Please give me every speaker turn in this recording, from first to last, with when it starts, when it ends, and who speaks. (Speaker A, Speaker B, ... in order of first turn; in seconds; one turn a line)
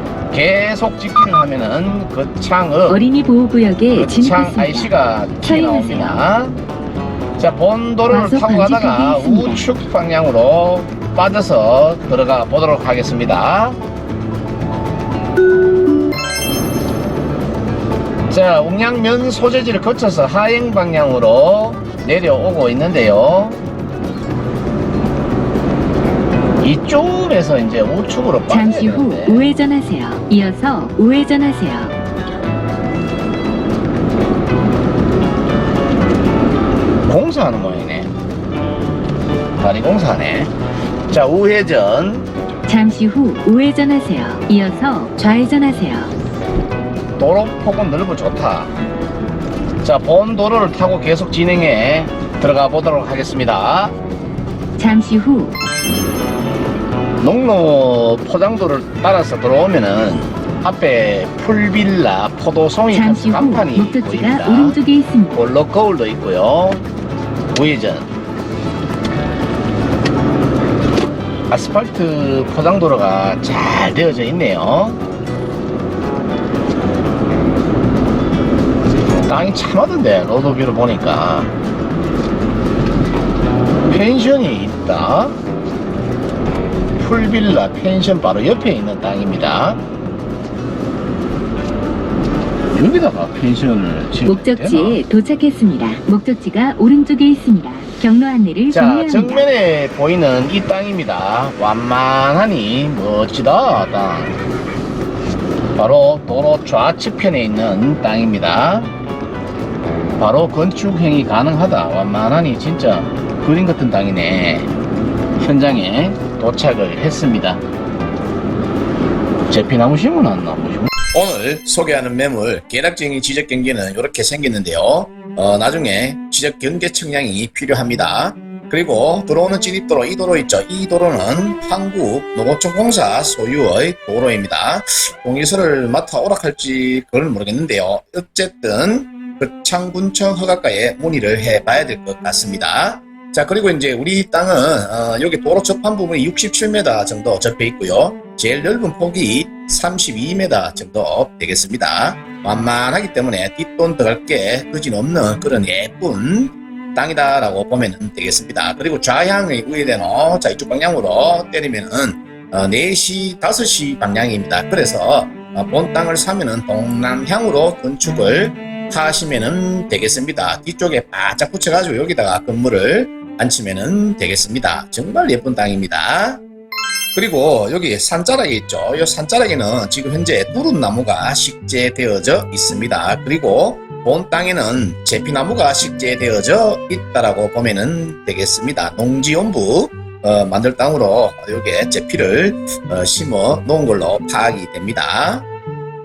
Speaker A: 0.3-3.0
Speaker B: 2.9-6.2
Speaker A: 3.9-6.6
Speaker A: 7.4-13.8
Speaker B: 8.1-9.7
Speaker A: 18.3-23.6
Speaker A: 26.6-29.4
Speaker B: 28.5-31.9
Speaker A: 37.1-38.1
Speaker A: 39.6-40.5
Speaker A: 41.1-42.3
Speaker B: 42.7-46.1
Speaker A: 47.2-48.7
Speaker A: 49.8-54.0
Speaker B: 54.8-55.6
Speaker A: 57.2-64.8
Speaker B: 62.9-65.4
Speaker A: 65.3-66.9
Speaker A: 67.5-68.1
Speaker A: 71.5-75.0
Speaker A: 79.3-81.5
Speaker A: 83.9-85.4
Speaker A: 87.0-89.8
Speaker A: 92.7-95.0
Speaker B: 94.2-99.5
Speaker A: 98.7-104.4
Speaker A: 105.8-108.9
Speaker A: 110.2-114.7
Speaker A: 115.4-117.6
Speaker A: 119.5-176.4
Speaker A: 177.2-195.5